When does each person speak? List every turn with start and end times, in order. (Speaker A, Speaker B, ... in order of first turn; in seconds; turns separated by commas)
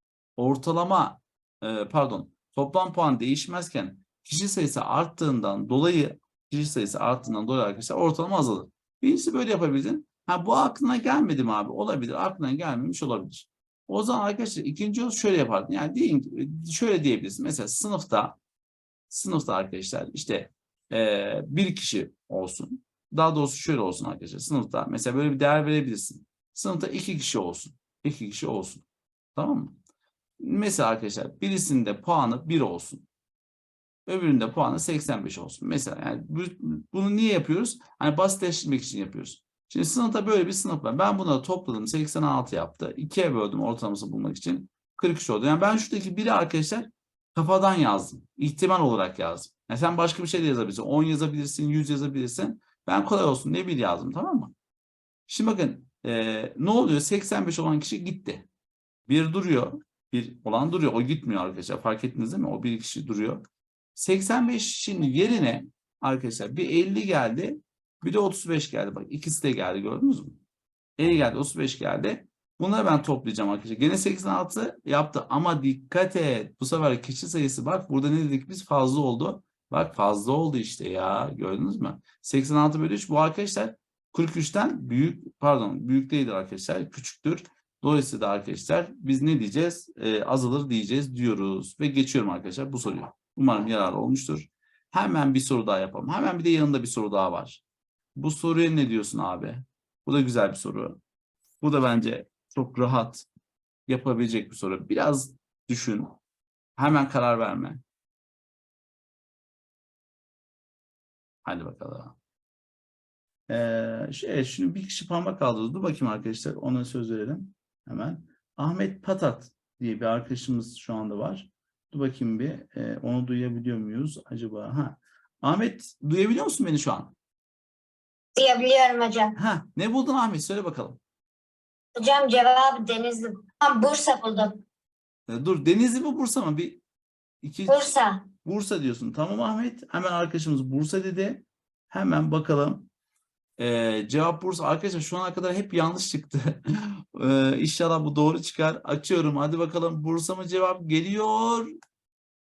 Speaker A: 0.4-18.4, Speaker A: 19.1-29.8, Speaker A: 30.4-33.1, Speaker A: 34.1-54.5, Speaker A: 55.3-58.5, Speaker A: 59.1-63.4, Speaker A: 64.0-70.4, Speaker A: 71.0-97.6, Speaker A: 98.2-101.0, Speaker A: 101.6-103.3, Speaker A: 103.9-106.2, Speaker A: 106.8-107.8, Speaker A: 111.5-112.2, Speaker A: 113.5-127.1, Speaker B: 128.4-129.3, Speaker A: 129.4-131.0, Speaker B: 132.0-134.6, Speaker A: 135.3-136.8, Speaker A: 137.4-142.9, Speaker B: 137.7-138.2, Speaker A: 143.6-151.7